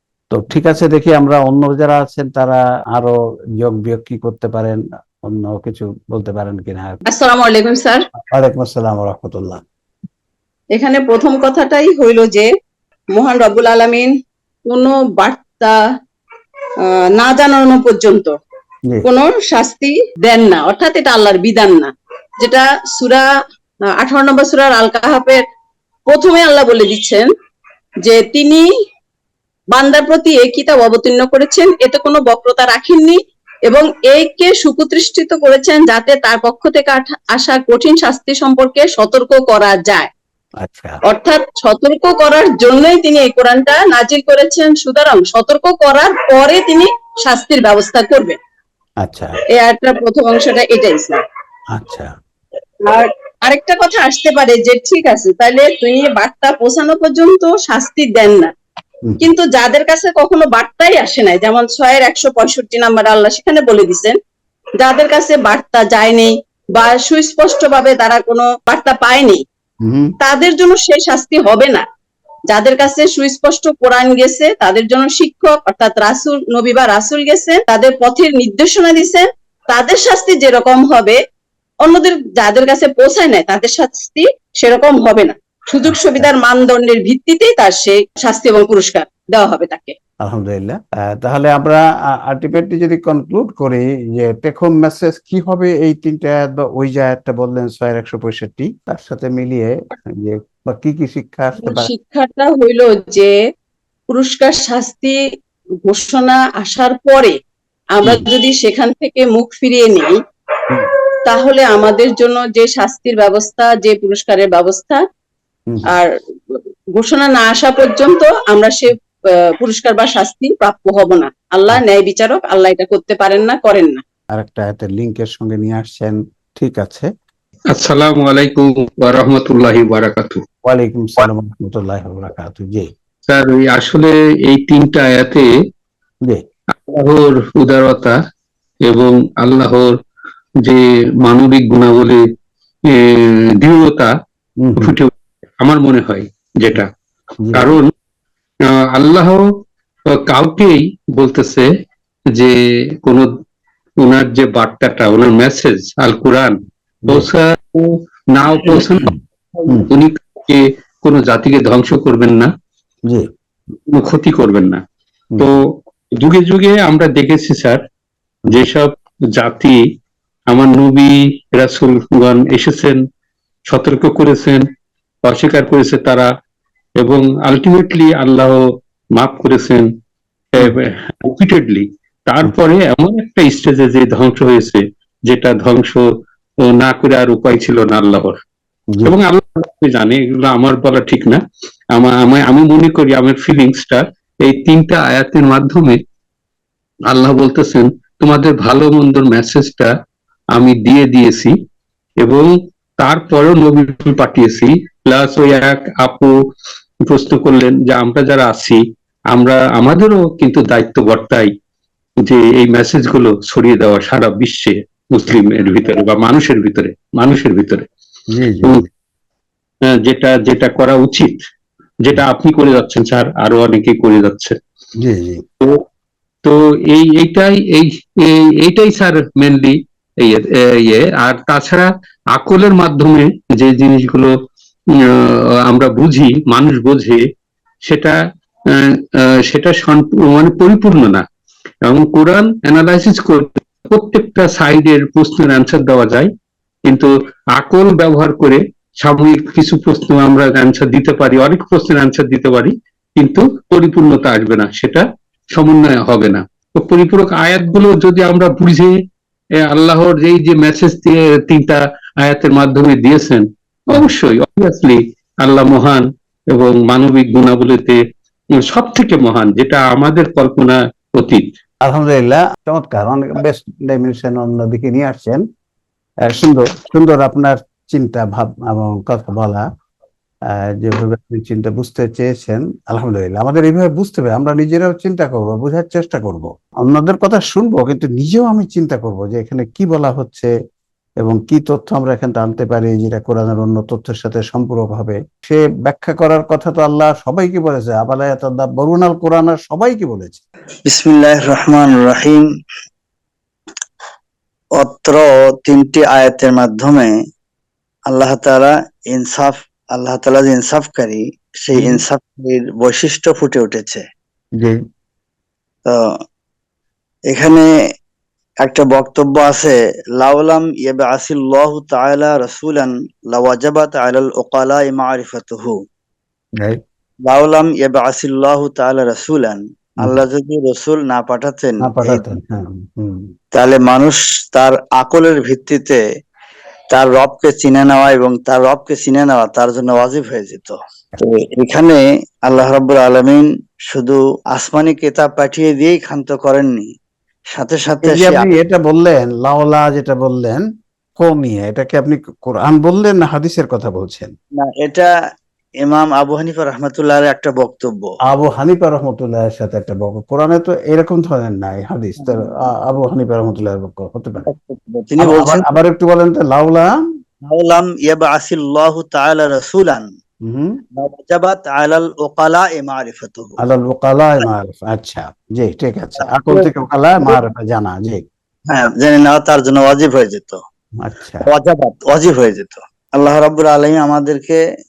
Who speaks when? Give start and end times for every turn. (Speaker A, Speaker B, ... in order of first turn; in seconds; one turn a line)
Speaker A: 0.3-7.0
Speaker B: 7.1-8.0
Speaker A: 8.3-9.6
Speaker B: 10.7-12.5
Speaker B: 13.1-14.1
Speaker B: 14.7-15.8
Speaker B: 16.8-18.4
Speaker B: 19.0-23.3
Speaker B: 23.9-25.4
Speaker B: 26.1-27.3
Speaker B: 28.0-28.6
Speaker B: 29.7-40.1
Speaker A: 40.6-41.0
Speaker B: 41.0-48.4
Speaker A: 49.0-49.4
Speaker B: 49.5-51.2
Speaker A: 51.7-52.1
Speaker B: 52.8-58.5
Speaker B: 59.2-64.2
Speaker B: 64.8-69.4
Speaker A: 69.8-70.1
Speaker B: 70.2-71.8
Speaker B: 72.5-81.2
Speaker B: 81.8-90.0
Speaker A: 85.8-86.3
Speaker A: 90.2-101.9
Speaker B: 101.6-103.3
Speaker B: 104.1-105.2
Speaker B: 105.8-107.4
Speaker B: 107.9-110.2
Speaker B: 111.2-115.0
Speaker B: 115.9-119.0
Speaker B: 119.5-124.0
Speaker A: 124.3-127.1
Speaker C: 127.7-130.4
Speaker A: 130.7-132.9
Speaker C: 133.3-135.5
Speaker C: 136.8-138.2
Speaker C: 138.9-140.0
Speaker C: 140.6-142.2
Speaker C: 142.9-144.1
Speaker A: 144.6-144.9
Speaker C: 144.8-145.1
Speaker C: 145.6-146.9
Speaker A: 147.4-147.8
Speaker C: 147.5-147.9
Speaker C: 148.7-149.4
Speaker C: 150.1-151.7
Speaker C: 152.3-153.3
Speaker C: 154.0-156.6
Speaker C: 157.1-162.5
Speaker A: 158.8-159.1
Speaker C: 163.9-164.8
Speaker C: 166.2-167.8
Speaker C: 168.5-169.8
Speaker C: 170.5-173.0
Speaker C: 173.7-174.6
Speaker C: 175.2-176.3
Speaker C: 177.0-178.6
Speaker C: 179.2-179.9
Speaker C: 180.5-186.1
Speaker C: 186.6-188.4
Speaker C: 189.0-191.4
Speaker C: 191.9-196.0
Speaker C: 197.1-199.9
Speaker C: 200.6-201.5
Speaker C: 202.2-206.3
Speaker C: 207.1-208.8
Speaker C: 209.3-211.5
Speaker C: 212.2-217.8
Speaker A: 218.3-218.8
Speaker C: 219.9-221.4
Speaker C: 222.0-224.6
Speaker A: 225.0-225.4
Speaker C: 226.4-234.3
Speaker C: 234.9-237.2
Speaker C: 237.9-238.2
Speaker C: 238.7-241.2
Speaker C: 241.9-246.3
Speaker C: 246.9-255.0
Speaker C: 255.5-258.9
Speaker C: 259.6-268.0
Speaker C: 268.5-271.5
Speaker A: 271.8-275.4
Speaker A: 276.3-279.6
Speaker A: 280.7-290.5
Speaker A: 291.2-300.4
Speaker D: 300.9-302.4
Speaker D: 304.8-307.1
Speaker D: 308.1-314.0
Speaker A: 311.8-312.0
Speaker A: 314.6-314.8
Speaker D: 315.9-316.2
Speaker D: 317.3-317.7
Speaker D: 318.6-325.8
Speaker D: 327.2-332.2
Speaker A: 331.8-333.3
Speaker D: 333.5-336.0
Speaker D: 336.9-346.9
Speaker D: 347.5-348.5
Speaker A: 348.0-350.6
Speaker A: 351.2-354.3
Speaker D: 354.6-355.1
Speaker D: 355.8-358.1
Speaker A: 358.3-364.5
Speaker D: 364.4-365.6
Speaker A: 365.2-367.0
Speaker D: 367.4-370.1
Speaker A: 370.4-370.8
Speaker D: 370.9-373.6
Speaker A: 373.6-378.2
Speaker D: 378.7-380.6
Speaker A: 381.0-381.5
Speaker D: 381.4-384.6